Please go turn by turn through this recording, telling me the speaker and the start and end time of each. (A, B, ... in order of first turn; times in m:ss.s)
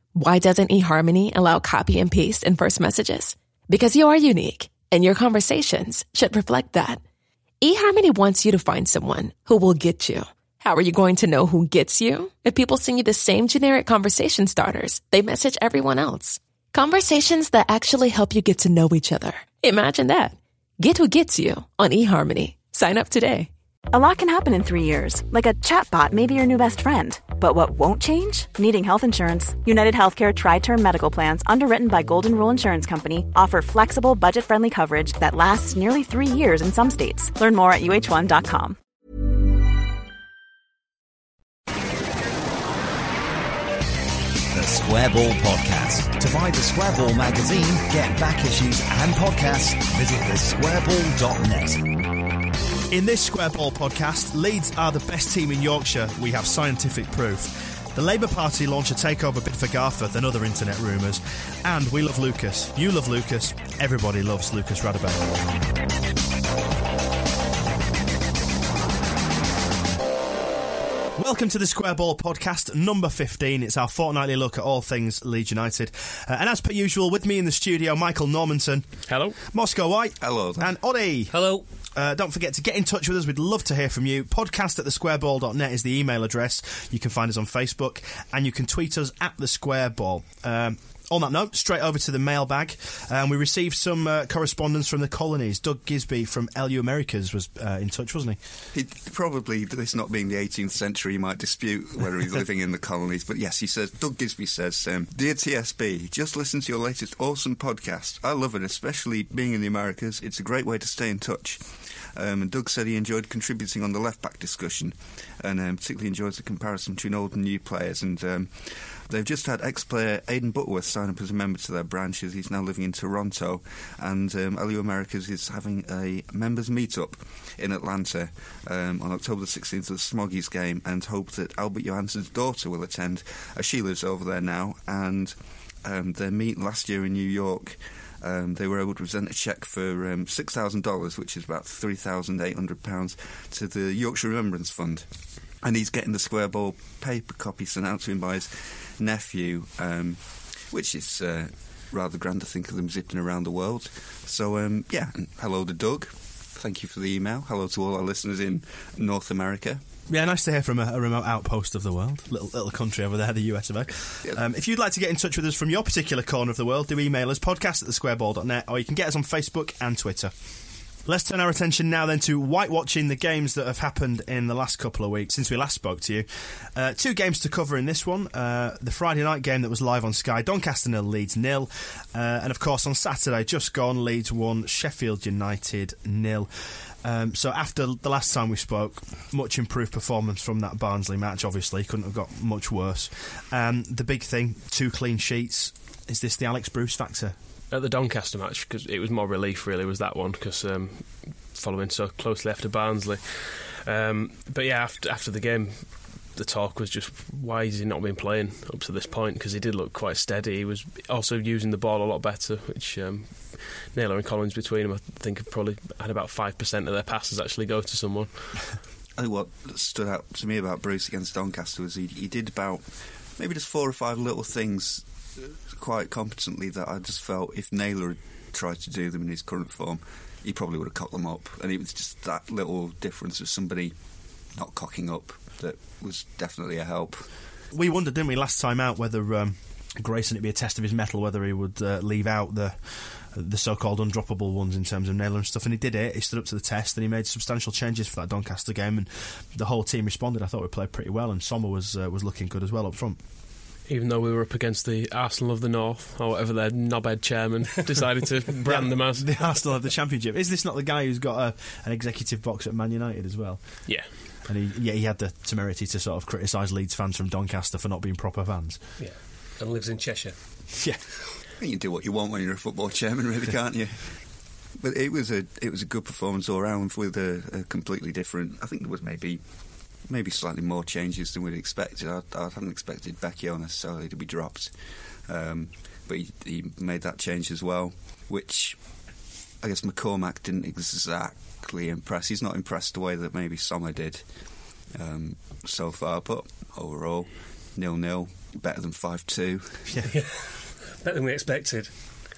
0:00.2-0:07.0 A
0:07.6-0:23.5 A
0:23.9-0:38.8 B
0:44.5-0:51.9 C
0:52.9-1:05.6 D
1:11.2-1:38.4 D
1:19.1-1:19.4 E
1:20.2-1:20.7 F
1:21.3-1:21.7 G
1:38.7-2:25.1 F
2:25.6-2:39.8 F
2:40.1-3:17.4 D
3:17.7-3:38.8 E
3:39.2-3:54.0 F
3:54.5-3:57.3 F
3:57.7-4:13.2 D
4:13.9-4:19.3 E
4:18.6-4:29.0 D
4:23.9-4:24.1 E
4:29.0-4:30.9 G
4:30.8-4:31.2 D
4:31.6-4:39.4 F
4:40.0-4:44.7 F
4:45.3-4:48.8 F
4:49.6-4:59.9 F
4:59.9-5:00.1 D
5:00.1-5:02.2 G